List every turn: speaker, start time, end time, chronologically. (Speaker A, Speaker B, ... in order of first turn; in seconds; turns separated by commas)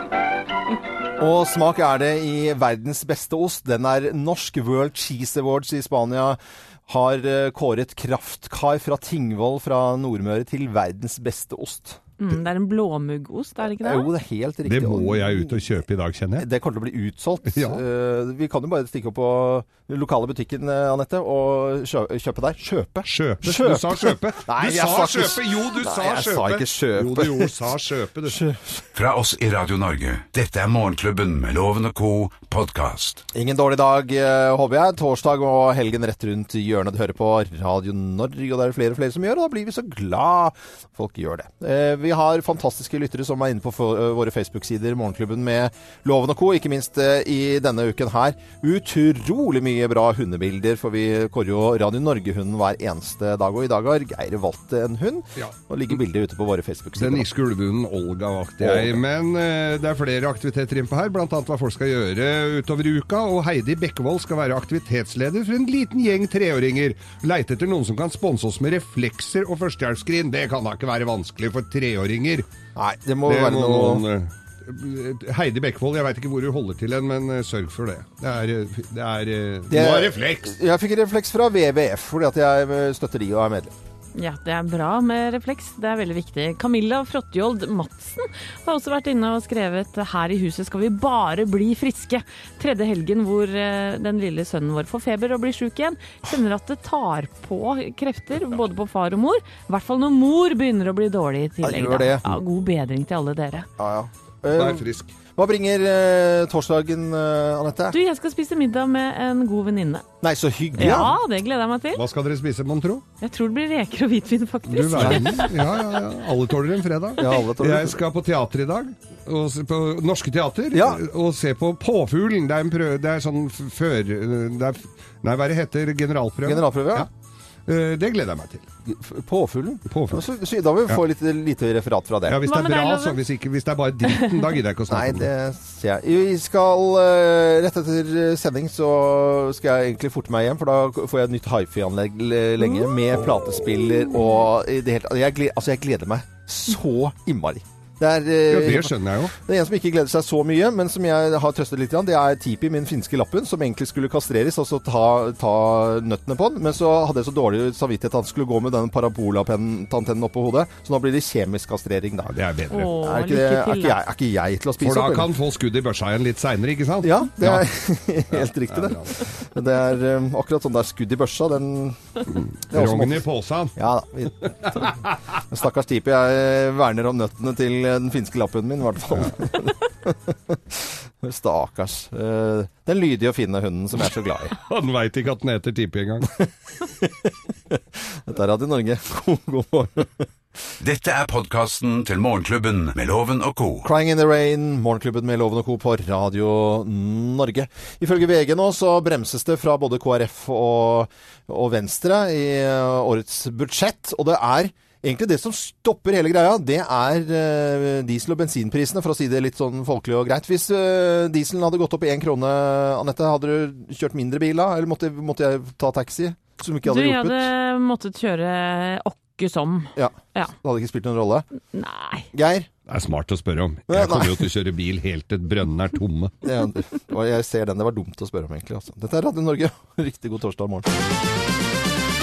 Speaker A: 1.2-12.0, Speaker B: 12.2-14.1, Speaker A: 13.8-15.6, Speaker C: 14.6-16.5, Speaker A: 16.4-27.7, Speaker C: 17.5-17.8, Speaker C: 23.1-28.4, Speaker A: 28.2-28.9, Speaker D: 28.9-33.2, Speaker A: 33.3-57.3, Speaker C: 57.0-72.5, Speaker A: 58.6-59.0, Speaker A: 72.7-74.0, Speaker C: 73.2-80.5, Speaker A: 79.7-83.7, Speaker B: 84.2-103.7, Speaker A: 101.6-102.3, Speaker A: 103.8-108.0, Speaker C: 104.5-105.1, Speaker B: 107.9-110.1, Speaker A: 110.2-111.1, Speaker B: 110.8-112.0, Speaker C: 111.9-113.0, Speaker B: 113.2-115.5, Speaker C: 114.7-127.1, Speaker A: 115.0-115.5, Speaker A: 117.2-118.0, Speaker A: 120.7-121.0, Speaker A: 126.4-127.1, Speaker C: 127.7-128.7, Speaker A: 128.9-132.4, Speaker C: 129.9-130.2, Speaker C: 132.3-135.3, Speaker B: 132.4-133.2, Speaker A: 134.9-162.3, Speaker C: 148.5-149.3, Speaker C: 162.2-163.0, Speaker B: 162.7-164.0, Speaker A: 162.9-165.3, Speaker C: 164.8-167.7, Speaker A: 167.0-172.0, Speaker C: 168.3-169.2, Speaker C: 172.3-173.8, Speaker A: 172.7-173.2, Speaker A: 173.8-174.9, Speaker C: 174.6-175.1, Speaker A: 175.5-184.6, Speaker C: 184.7-186.3, Speaker A: 186.4-190.3, Speaker D: 190.8-193.9, Speaker A: 193.8-217.5, Speaker B: 216.9-220.5, Speaker A: 219.9-221.4, Speaker B: 221.7-222.3, Speaker A: 222.3-222.7, Speaker C: 222.9-226.3, Speaker A: 223.9-224.5, Speaker A: 226.4-230.9